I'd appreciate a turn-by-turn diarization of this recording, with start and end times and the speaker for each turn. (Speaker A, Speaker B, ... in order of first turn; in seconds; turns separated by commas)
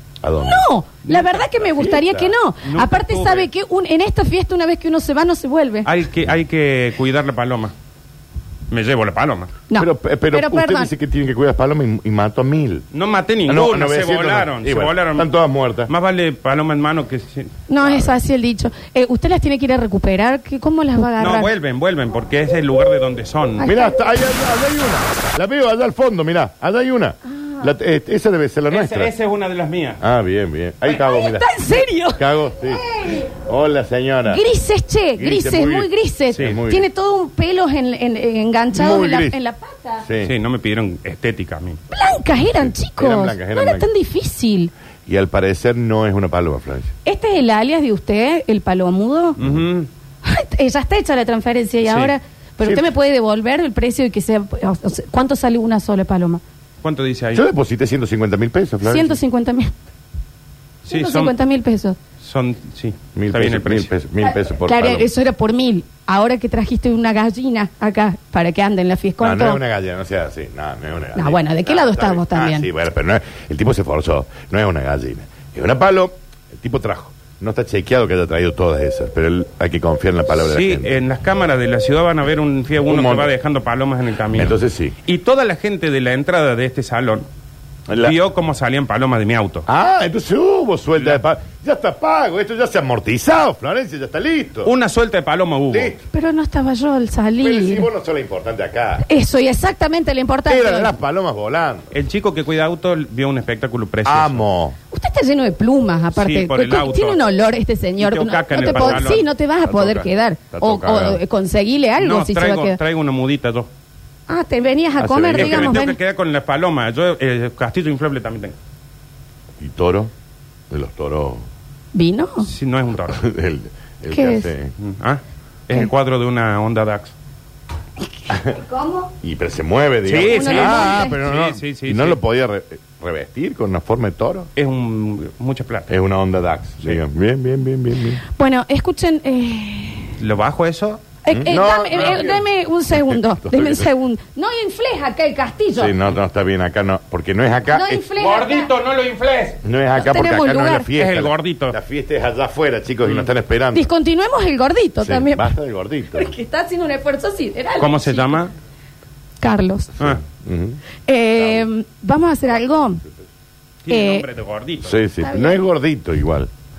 Speaker A: 0.2-0.7, Speaker B: 0.4-5.9, Speaker C: 1.1-1.5, Speaker A: 1.5-2.3, Speaker C: 2.6-3.5, Speaker C: 5.8-7.7, Speaker C: 8.7-9.5, Speaker B: 9.7-10.9, Speaker A: 9.8-12.9, Speaker C: 12.9-15.3, Speaker A: 13.5-15.9, Speaker C: 15.9-18.0, Speaker B: 17.7-21.5, Speaker C: 21.2-23.7, Speaker B: 23.6-24.0, Speaker A: 23.6-29.1, Speaker B: 27.3-27.7, Speaker C: 28.7-30.0, Speaker A: 30.0-31.5, Speaker B: 30.9-33.3, Speaker A: 32.1-34.4, Speaker B: 34.3-40.1, Speaker A: 35.2-36.9, Speaker C: 36.3-36.6, Speaker A: 38.7-39.4, Speaker A: 40.0-40.3, Speaker C: 40.2-41.8, Speaker B: 41.9-44.7, Speaker A: 42.6-43.9, Speaker A: 45.1-46.9, Speaker B: 47.0-49.4, Speaker C: 49.4-49.9, Speaker B: 50.2-56.4, Speaker C: 51.9-52.1, Speaker A: 52.6-52.9, Speaker C: 56.8-57.5, Speaker A: 57.3-59.2, Speaker B: 58.8-59.8, Speaker B: 60.9-62.0, Speaker C: 60.9-61.4, Speaker C: 62.2-63.9, Speaker A: 63.1-65.1, Speaker B: 64.2-69.6, Speaker A: 69.2-80.9, Speaker B: 71.2-72.7, Speaker C: 80.3-87.2, Speaker A: 82.9-83.3, Speaker A: 84.3-85.0, Speaker A: 87.9-88.2, Speaker C: 87.9-89.7, Speaker A: 89.7-94.7, Speaker C: 91.0-91.2, Speaker C: 94.7-96.0, Speaker A: 95.7-96.0, Speaker B: 96.1-97.9, Speaker A: 97.4-99.1, Speaker B: 99.0-101.0, Speaker A: 100.5-101.9, Speaker C: 101.9-104.4, Speaker A: 104.0-104.8, Speaker B: 104.9-112.8, Speaker C: 106.2-107.2, Speaker C: 108.0-109.3, Speaker A: 109.6-111.2, Speaker C: 112.0-113.7, Speaker B: 114.3-116.0, Speaker A: 115.0-115.9, Speaker C: 115.3-118.5, Speaker A: 119.6-120.1, Speaker A: 120.7-121.4, Speaker B: 121.9-122.5, Speaker C: 122.4-123.2, Speaker A: 123.1-124.7, Speaker B: 124.1-124.5, Speaker C: 124.8-127.1, Speaker B: 128.3-129.1, Speaker A: 129.2-134.5, Speaker C: 130.1-132.2, Speaker B: 130.2-131.2, Speaker C: 134.6-135.9, Speaker A: 135.9-138.2, Speaker B: 138.2-140.2, Speaker C: 140.2-141.0, Speaker B: 141.2-146.0, Speaker A: 141.3-143.9, Speaker C: 141.9-142.3, Speaker A: 145.8-148.1, Speaker B: 147.7-148.7, Speaker C: 148.2-149.6, Speaker A: 149.6-153.9, Speaker B: 149.9-150.9, Speaker C: 150.9-151.8, Speaker B: 153.7-155.5, Speaker A: 155.0-156.3, Speaker B: 156.1-158.4, Speaker C: 157.8-158.5, Speaker B: 159.4-160.0, Speaker A: 160.0-160.8, Speaker B: 161.1-163.0, Speaker A: 161.4-161.6, Speaker C: 163.8-165.0, Speaker B: 163.9-164.2, Speaker A: 164.8-166.5, Speaker B: 165.2-165.6